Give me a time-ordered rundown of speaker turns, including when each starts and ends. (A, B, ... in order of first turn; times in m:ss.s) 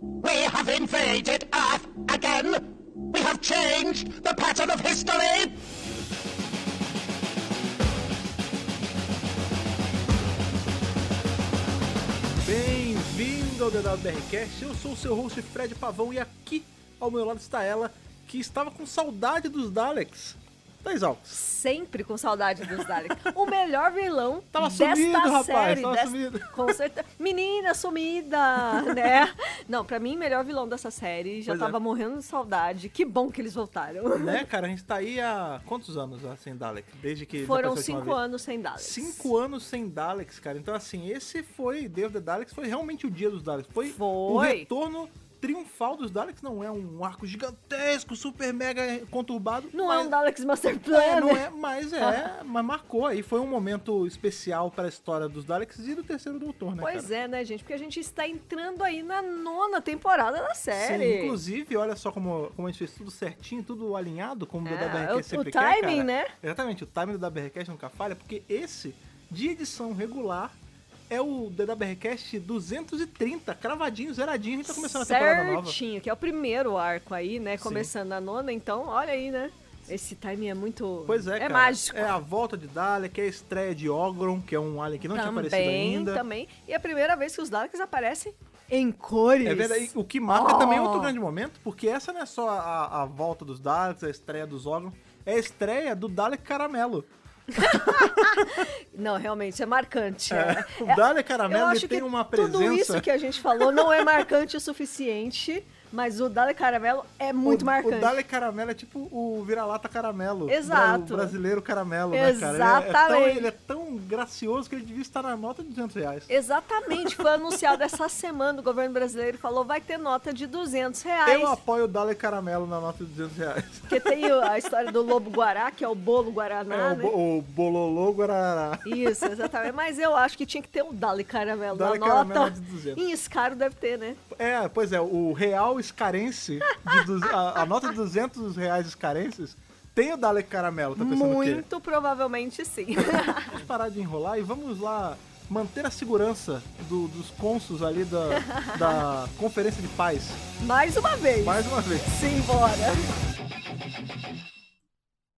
0:00.2-0:05.6 A
0:12.4-0:21.4 B
0:21.3-0:34.4 C
0:24.5-0:26.8 B
0:28.7-0:29.1 B
0:31.4-0:31.8 B
0:34.2-0:38.2 B
0:37.4-0:39.3 C
0:38.8-0:50.1 B
0:43.8-0:44.7 C
0:49.7-0:51.4 C
0:50.9-0:57.1 B
0:56.8-1:01.4 C
1:00.7-1:10.6 B
1:04.6-1:06.3 C
1:11.1-1:15.8 B
1:14.7-1:22.2 C
1:17.6-1:17.9 B
1:21.1-1:26.2 B
1:25.0-1:31.1 C
1:29.4-1:38.6 B
1:37.5-1:48.1 C
1:40.3-1:44.3 B
1:47.4-1:56.3 B
1:50.5-1:51.4 C
1:52.1-1:53.5 C
1:56.3-2:01.6 C
1:56.9-1:57.8 B
2:01.2-2:04.5 B
2:03.9-2:07.1 C
2:06.7-2:09.6 B
2:08.8-2:14.2 C
2:11.7-2:13.0 B
2:14.3-2:21.6 B
2:21.0-2:23.6 C
2:23.4-2:30.4 B
2:28.3-2:29.0 C
2:30.6-2:33.1 C
2:31.4-2:32.2 B